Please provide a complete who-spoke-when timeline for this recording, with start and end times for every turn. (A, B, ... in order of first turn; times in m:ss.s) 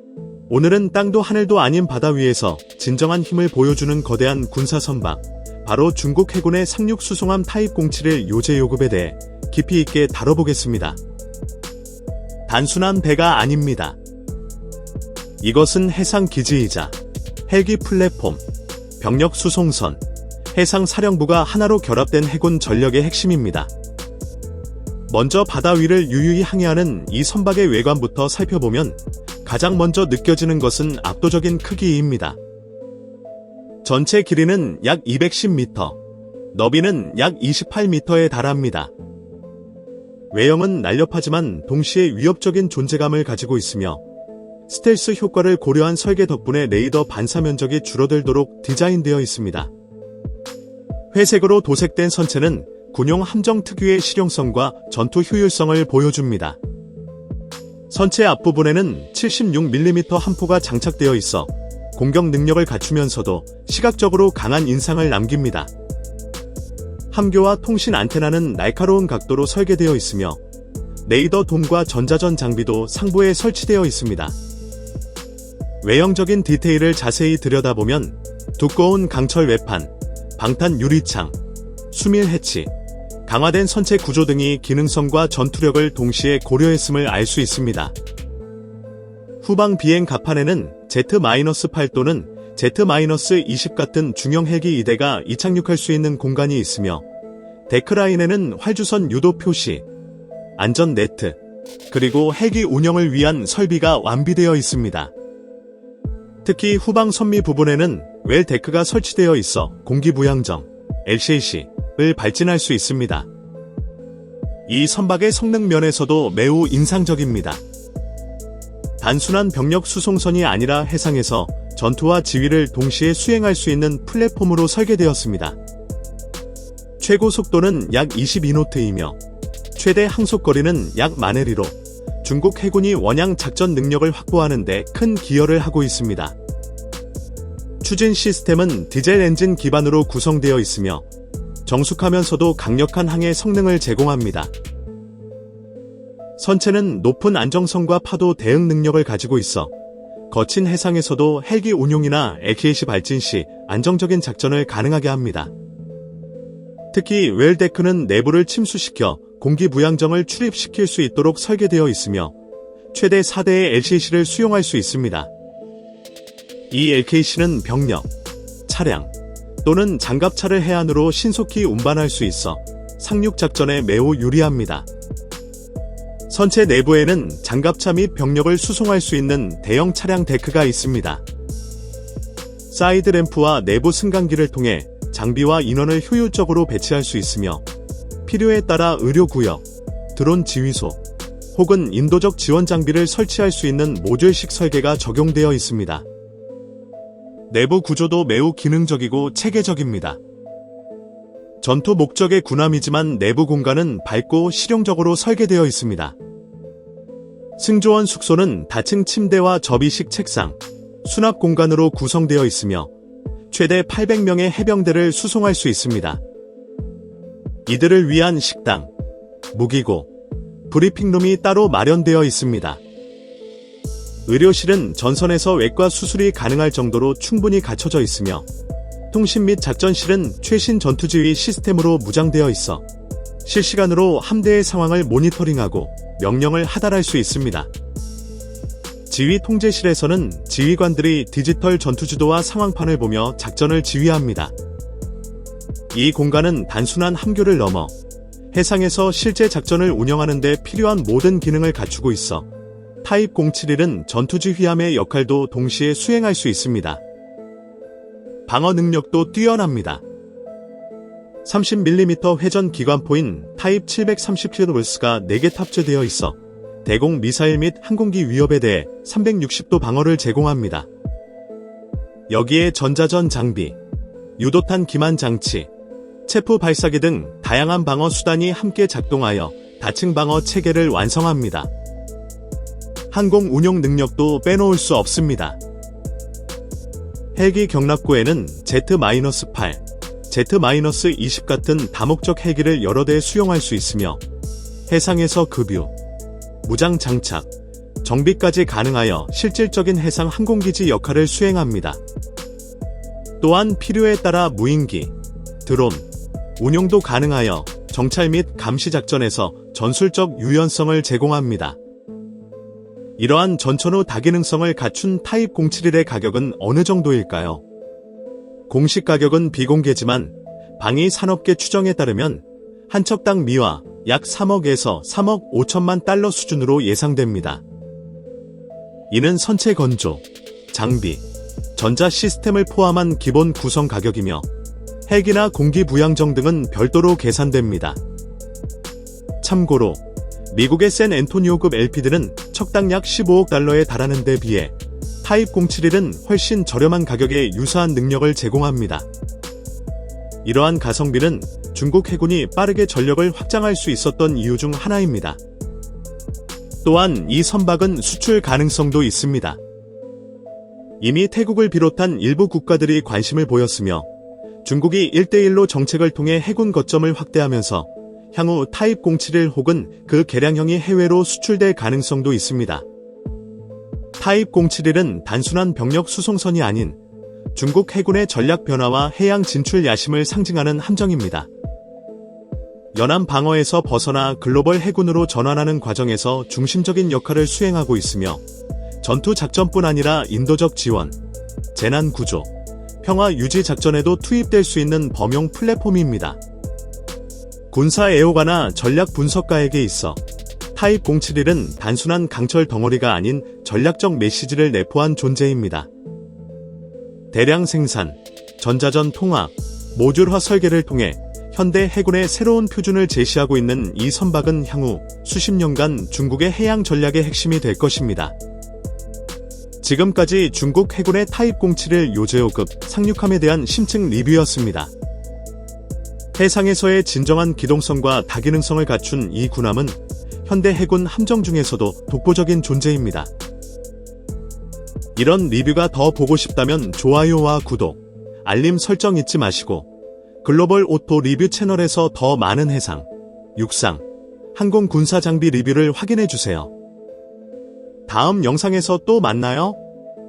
0:00.5-0:11.0 A
0:12.5-0:14.0 A
0:15.4-0:16.9 A
0:17.5-0:18.4 A
0:19.0-0:20.0 A
0:20.5-0:23.7 A
0:25.1-0:32.4 A
0:33.8-0:36.0 A
0:36.5-0:38.9 A
0:40.3-0:44.0 A
0:44.7-0:49.7 A
0:51.1-0:56.6 A
0:57.9-1:05.7 A
1:07.1-1:10.4 A
1:11.0-1:14.3 A
1:15.8-1:21.4 A
1:21.9-1:22.7 A
1:23.2-1:27.9 A
1:29.4-1:37.0 A
1:37.7-1:39.8 A
1:40.6-1:41.4 A
1:41.9-1:45.1 A
1:46.4-1:53.3 A
1:54.7-1:57.6 A
1:59.0-2:05.6 A
2:07.0-2:09.2 A
2:09.8-2:16.4 A
2:17.8-2:21.0 A
2:21.6-2:24.5 A
2:26.4-2:29.7 A
2:30.3-2:35.5 A
2:36.9-2:42.3 A
2:42.9-2:45.3 A
2:46.7-2:48.1 A
2:48.7-2:49.1 A
2:49.6-2:54.9 A
2:56.3-3:01.2 A
3:02.7-3:07.6 A
3:08.2-3:09.6 A
3:10.1-3:11.0 A
3:11.5-3:16.0 A
3:17.5-3:20.2 A
3:21.6-3:26.2 A
3:27.6-3:32.9 A
3:33.5-3:36.2 A
3:37.7-3:38.9 A
3:39.5-3:40.1 A
3:40.7-3:42.8 A
3:44.3-3:48.4 A
3:49.1-3:52.8 A
3:53.4-3:57.7 A
3:59.1-4:04.5 A
4:05.9-4:07.9 A
4:08.5-4:12.5 A
4:13.0-4:17.0 A
4:18.5-4:20.0 A
4:21.4-4:30.9 A
4:32.3-4:33.8 A
4:34.4-4:35.7 A
4:36.2-4:41.7 A
4:43.1-4:45.6 A
4:47.3-4:54.2 A
4:54.9-4:55.9 A
4:56.6-4:57.5 A
4:58.0-5:02.0 A
5:03.4-5:05.1 A
5:05.6-5:06.0 A
5:06.6-5:11.8 A
5:13.2-5:17.6 A
5:18.7-5:27.6 A
5:29.1-5:31.2 A
5:31.8-5:34.4 A
5:35.1-5:38.0 A
5:39.4-5:49.0 A
5:50.4-5:55.4 A
5:56.8-5:59.6 A
6:01.0-6:04.1 A
6:04.6-6:12.8 A
6:14.2-6:17.0 A
6:17.5-6:21.5 A
6:22.9-6:28.4 A
6:29.0-6:31.1 A
6:31.7-6:32.5 A
6:33.0-6:36.4 A
6:37.7-6:40.2 A
6:40.7-6:45.9 A
6:47.3-6:58.3 A
6:59.8-7:04.9 A
7:06.4-7:13.3 A
7:15.2-7:19.9 A
7:20.4-7:24.0 A
7:24.5-7:26.7 A
7:28.1-7:29.8 A